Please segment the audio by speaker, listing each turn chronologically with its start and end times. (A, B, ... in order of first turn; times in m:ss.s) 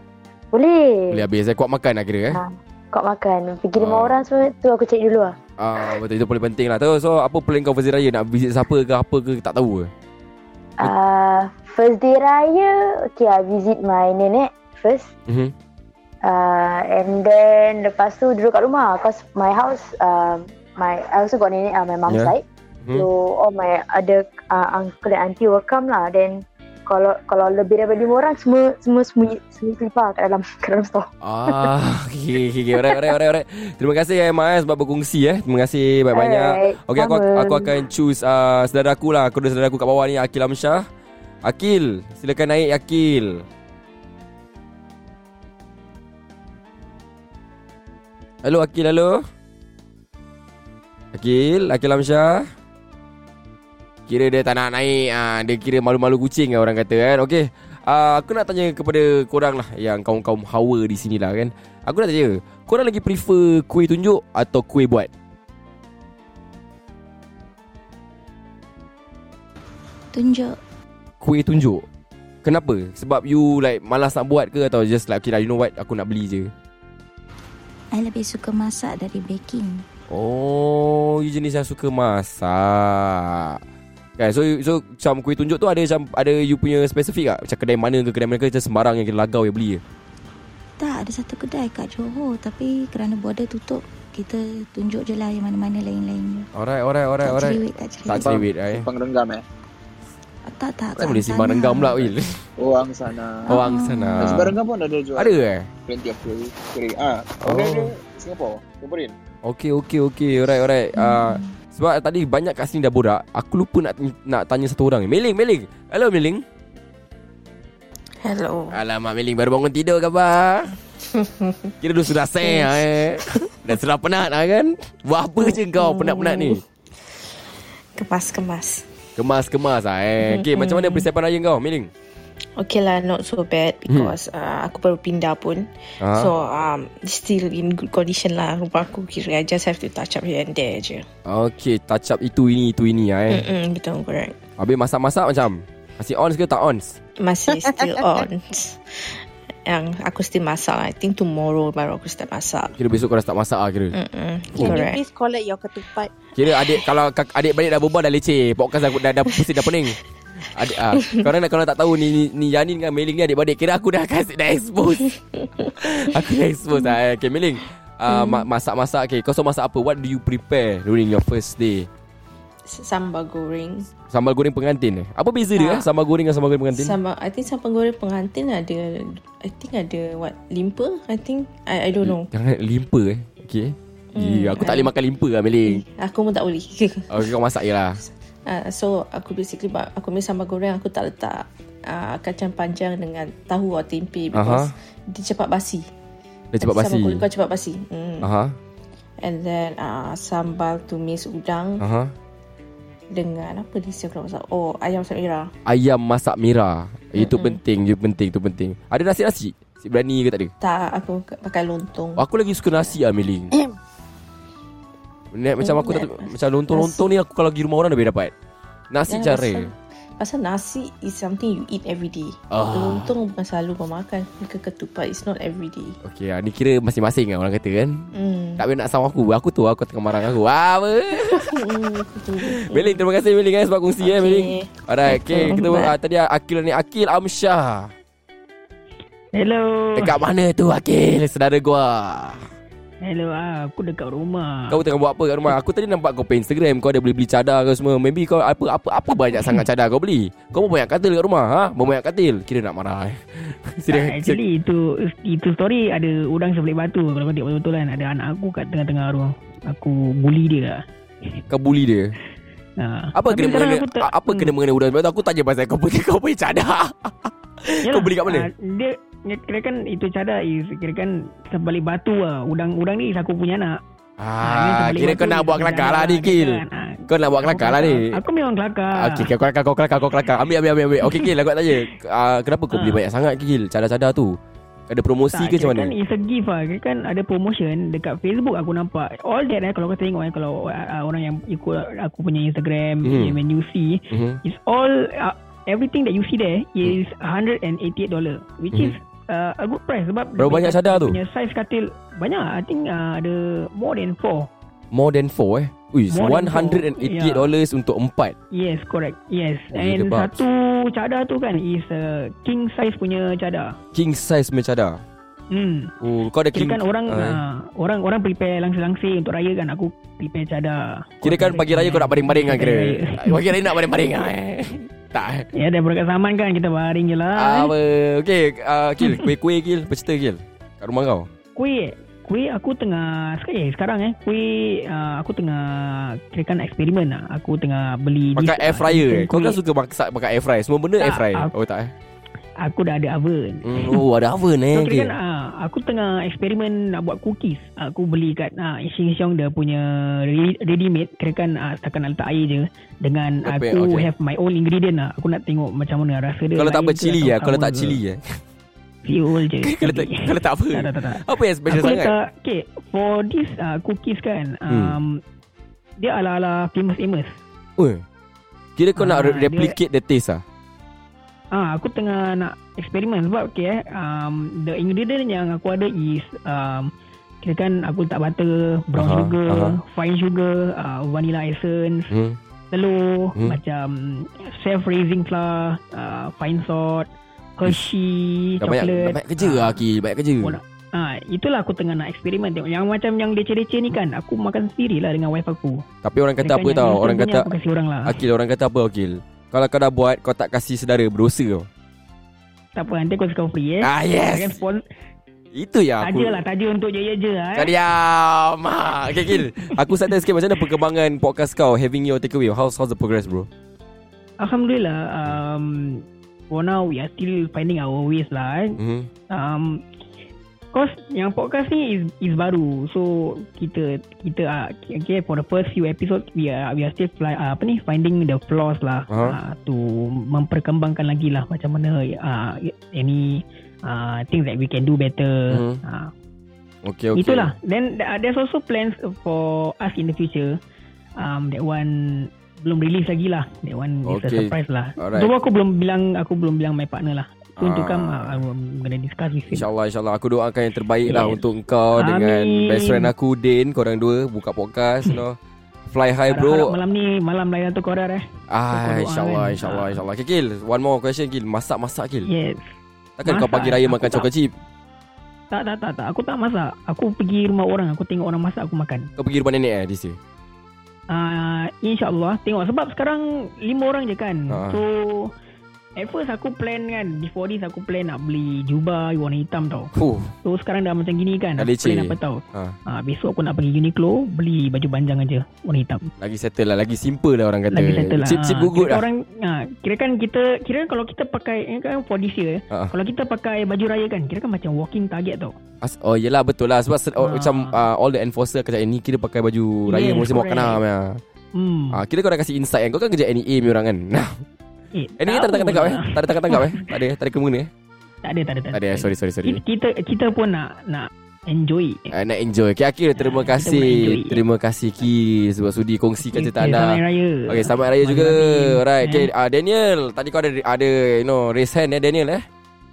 0:00.5-0:01.2 A
0:01.1-0:02.4 B
0:02.3-0:05.4 A
0:03.8-0:04.2 B
0:05.6-0:09.9 B
0:10.8-0:15.1 A
0:15.3-0:15.5 B
0:16.2-0:22.4 A
0:22.1-0:23.1 B
0:22.9-0:31.7 A
0:31.2-0:40.8 B
0:32.8-0:33.1 A
0:36.1-0:37.8 A
0:41.4-0:43.5 B
0:48.4-0:49.2 B
0:51.1-0:52.4 B
0:54.1-1:05.1 B
1:10.1-1:10.6 C
1:11.2-1:11.8 B
1:12.4-1:16.5 B
1:17.9-1:19.8 C
1:20.1-1:23.6 B
1:24.2-1:29.8 B
1:30.8-1:36.5 C
1:36.5-1:38.8 B
1:37.2-1:38.3 C
1:38.2-1:39.4 D
1:40.5-1:42.0 C
1:41.0-1:42.4 B
1:42.6-1:43.6 D
1:43.5-1:44.5 B
1:43.6-1:44.3 C
1:44.2-1:49.2 D
1:45.2-1:45.7 B
1:47.4-1:47.9 B
1:49.4-1:56.4 B
1:58.2-1:58.7 E
1:58.7-2:00.7 B
2:01.0-2:01.7 E
2:01.8-2:06.6 B
2:02.4-2:02.8 E
2:05.4-2:07.2 E
2:08.0-2:08.9 E
2:09.2-2:11.9 B
2:10.2-2:11.0 E
2:12.6-2:21.1 E
2:13.9-2:14.1 B
2:16.0-2:16.3 B
2:21.3-2:23.4 B
2:23.3-2:24.4 E
2:24.6-2:27.0 B
2:27.2-2:29.2 E
2:27.7-2:28.2 F
2:29.7-2:32.7 E
2:32.8-2:34.0 B
2:33.9-2:35.0 E
2:34.6-2:36.1 F
2:36.4-2:40.0 B
2:40.5-2:45.1 B
2:45.8-2:51.9 B
2:48.1-2:48.4 E
2:52.7-2:53.9 E
2:54.1-2:57.0 B
2:55.6-2:55.9 E
2:56.7-3:02.3 E
3:02.0-3:05.8 B
3:04.2-3:04.9 E
3:05.7-3:07.2 E
3:07.1-3:08.0 B
3:08.5-3:15.8 E
3:14.3-3:14.7 B
3:16.5-3:17.2 B
3:16.6-3:18.2 E
3:18.2-3:18.6 B
3:19.2-3:21.8 E
3:21.8-3:22.1 B
3:23.1-3:25.5 E
3:25.7-3:30.5 B
3:27.2-3:27.6 E
3:30.6-3:32.2 E
3:32.2-3:33.5 B
3:35.3-3:38.3 B
3:35.6-3:37.2 E
3:38.9-3:39.7 B
3:39.1-3:46.0 E
3:42.5-3:43.1 B
3:46.0-3:48.1 B
3:48.1-3:48.6 E
3:48.6-3:51.5 B
3:51.3-3:53.0 E
3:52.4-3:57.9 B
3:54.0-3:55.9 E
3:59.3-4:00.2 G
4:00.0-4:02.4 B
4:03.0-4:04.8 G
4:04.7-4:14.4 B
4:13.9-4:20.8 G
4:21.5-4:22.1 B
4:22.8-4:24.5 G
4:23.1-4:28.5 B
4:27.9-4:33.8 G
4:34.2-4:38.2 B
4:34.4-4:39.3 G
4:39.0-4:44.4 B
4:41.0-4:41.3 G
4:42.7-4:43.0 G
4:44.9-4:45.9 B
4:45.3-5:04.5 G
4:53.0-4:53.4 B
4:54.1-4:54.4 B
5:00.4-5:01.2 B
5:04.9-5:08.4 B
5:06.1-5:07.5 G
5:08.5-5:13.8 G
5:09.7-5:10.4 B
5:13.9-5:15.0 B
5:15.5-5:15.9 G
5:16.0-5:17.4 B
5:16.5-5:23.8 G
5:21.2-5:25.5 B
5:25.5-5:27.7 G
5:27.4-5:31.3 B
5:29.0-5:29.3 G
5:31.6-5:39.6 G
5:38.4-5:41.9 B
5:41.0-5:41.5 G
5:42.6-5:44.0 G
5:43.6-5:45.1 B
5:44.7-5:58.0 G
5:53.4-5:54.1 B
5:56.6-5:58.4 B
5:59.1-6:05.2 G
5:59.6-6:02.1 B
6:04.7-6:05.0 B
6:06.0-6:07.4 G
6:07.8-6:08.0 B
6:08.8-6:10.4 B
6:09.0-6:09.7 G
6:11.5-6:16.9 G
6:17.4-6:22.1 G
6:19.0-6:19.8 B
6:22.1-6:22.4 B
6:22.7-6:29.8 G
6:28.6-6:30.6 B
6:30.4-6:35.8 G
6:36.0-6:37.5 B
6:36.4-6:38.2 G
6:38.0-6:41.7 B
6:42.8-6:44.8 G
6:43.8-6:44.6 B
6:45.5-6:46.4 B
6:46.0-6:47.7 G
6:47.6-6:53.5 B
6:49.2-6:50.1 G
6:54.4-6:58.8 G
6:58.8-6:59.1 B
6:59.3-6:59.8 G
7:00.7-7:16.1 G
7:09.1-7:09.4 B
7:15.5-7:15.8 B
7:16.8-7:17.5 B
7:17.2-7:20.6 G
7:21.2-7:29.7 G
7:24.0-7:25.3 B
7:27.6-7:28.4 B
7:29.5-7:36.8 B
7:31.1-7:31.4 G
7:32.0-7:33.1 G
7:36.3-7:40.0 G
7:38.5-7:42.3 B
7:42.2-7:42.7 G
7:43.2-7:44.5 B
7:43.3-7:44.3 G
7:45.5-7:49.1 G
7:49.2-7:50.2 B
7:51.1-7:55.3 G
7:54.5-7:54.8 B
7:56.0-7:59.9 G
7:59.9-8:00.3 B
8:00.4-8:06.1 G
8:01.6-8:02.8 B
8:06.2-8:09.0 B
8:07.7-8:15.6 G
8:15.8-8:21.2 B
8:17.2-8:17.7 G
8:19.9-8:20.8 G
8:21.6-8:22.0 G
8:21.9-8:24.4 B
8:25.0-8:26.9 G
8:25.2-8:27.7 B
8:28.2-8:32.1 G
8:28.7-8:29.6 B
8:32.1-8:42.4 B
8:33.2-8:34.4 G
8:36.3-8:39.3 G